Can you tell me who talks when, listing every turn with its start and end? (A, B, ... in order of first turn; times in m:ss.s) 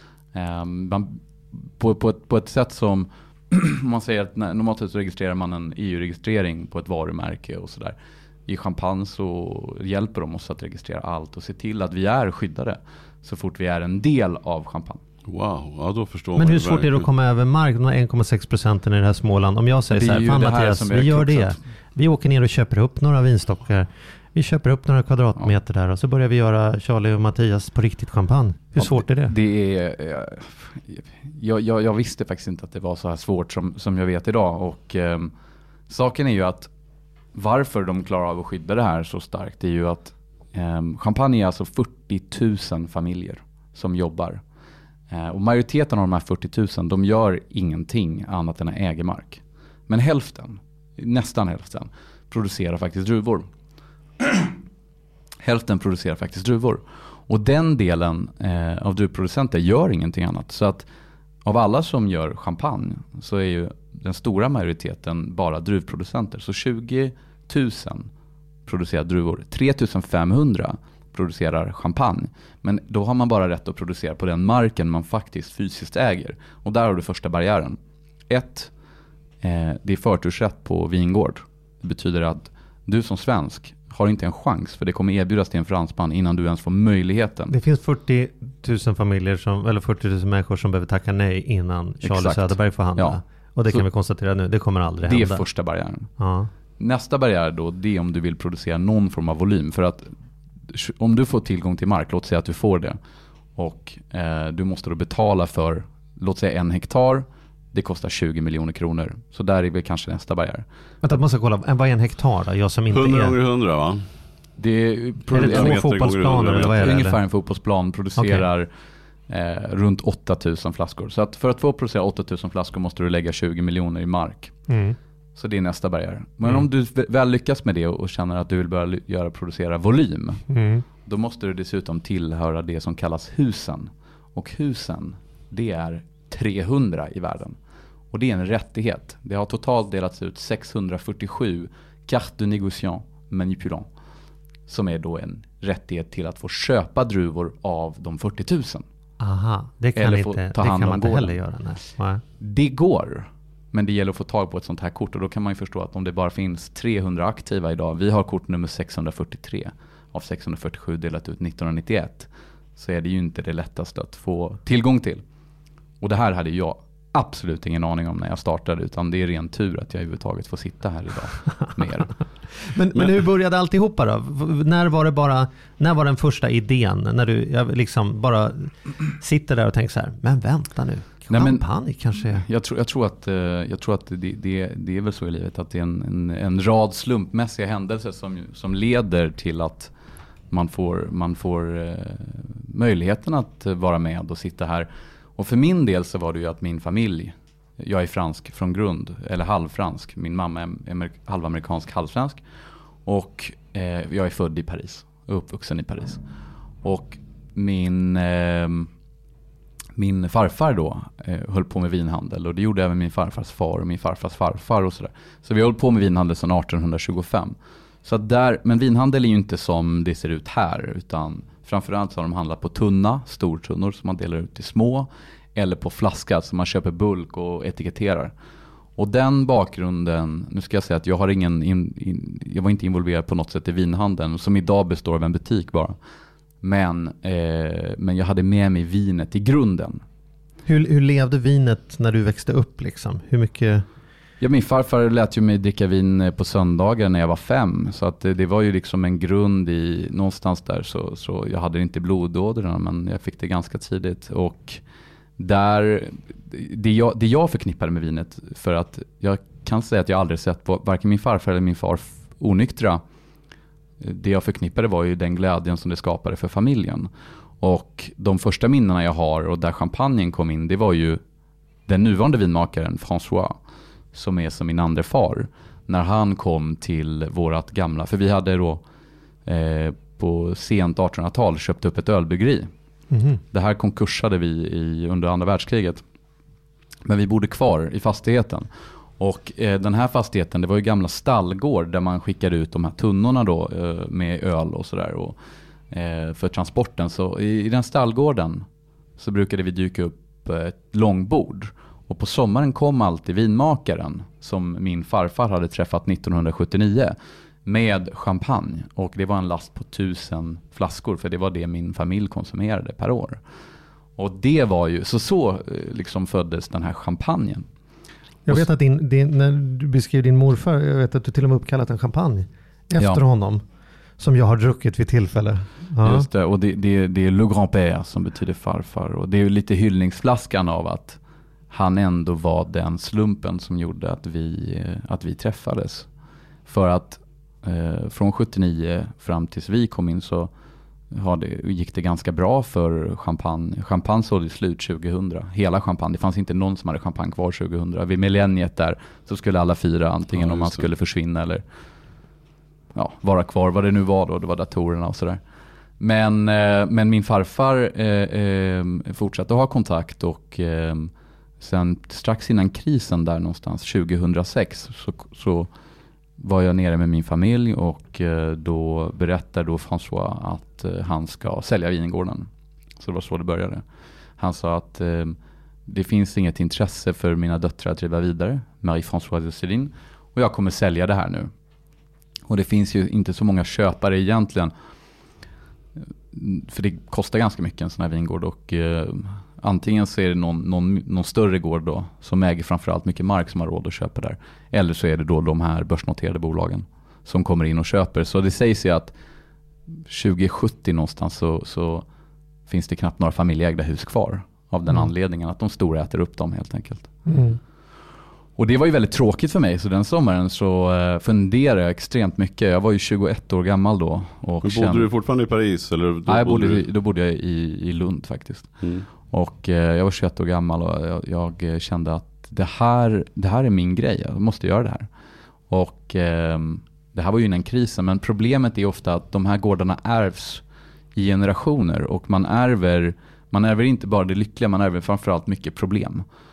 0:00.3-0:15.0 A
0:15.3-0:17.1 B
0:16.4-0:29.3 C
0:19.9-0:21.6 A
0:28.8-0:35.3 A
0:35.9-0:36.7 A
0:37.3-0:44.4 A
0:45.1-0:53.5 A
0:54.2-0:54.5 A
0:55.4-1:00.8 A
1:01.4-1:08.1 A
1:08.6-1:17.8 A
1:18.3-1:18.7 A
1:19.4-1:27.5 A
1:27.5-1:35.4 C
1:32.0-1:33.8 A
1:35.0-1:36.1 A
1:36.2-1:36.5 C
1:36.8-1:40.1 A
1:40.7-1:43.0 A
1:43.6-1:50.6 A
1:51.0-1:53.4 C
1:52.9-1:54.0 B
1:54.6-1:55.8 A
1:55.3-1:57.2 C
1:55.3-1:57.0 B
1:56.7-1:58.7 A
1:58.2-1:58.4 C
1:59.3-2:04.5 A
2:04.7-2:05.0 C
2:05.4-2:10.4 A
2:10.5-2:10.8 C
2:11.0-2:17.6 A
2:18.1-2:23.9 A
2:24.7-2:28.8 A
2:29.2-2:32.2 C
2:30.0-2:31.4 A
2:32.4-2:45.2 A
2:46.0-2:52.1 A
2:52.6-3:02.4 C
3:01.3-3:01.6 A
3:02.2-3:09.9 A
3:10.5-3:22.4 A
3:23.0-3:26.2 A
3:26.8-3:28.9 A
3:30.0-3:48.3 A
3:49.0-3:56.0 A
3:56.6-4:00.0 A
4:00.6-4:03.8 C
4:04.4-4:14.8 A
4:15.4-4:23.0 A
4:24.0-4:27.1 A
4:27.6-4:31.2 A
4:31.9-4:33.6 A
4:34.1-4:38.8 A
4:39.4-4:42.7 A
4:43.1-4:43.4 C
4:43.5-4:46.0 A
4:47.0-4:48.7 A
4:49.2-4:55.4 A
4:55.9-4:58.6 A
4:59.2-5:13.4 A
5:14.2-5:17.6 A
5:18.4-5:23.6 C
5:23.0-5:23.2 A
5:24.2-5:26.3 C
5:26.0-5:31.2 A
5:31.7-5:36.1 A
5:36.6-5:40.5 A
5:41.1-5:51.6 A
5:50.3-5:50.9 B
5:52.9-5:55.4 A
5:56.0-6:05.7 A
6:06.4-6:13.8 A
6:14.4-6:21.5 A
6:22.5-6:24.7 A
6:26.3-6:39.1 A
6:40.0-6:42.0 A
6:42.7-6:47.1 A
6:47.3-6:47.6 C
6:48.6-6:55.1 A
6:54.6-6:56.8 B
6:56.3-6:58.7 A
6:59.3-7:05.1 A
7:05.7-7:10.6 A
7:11.1-7:16.2 A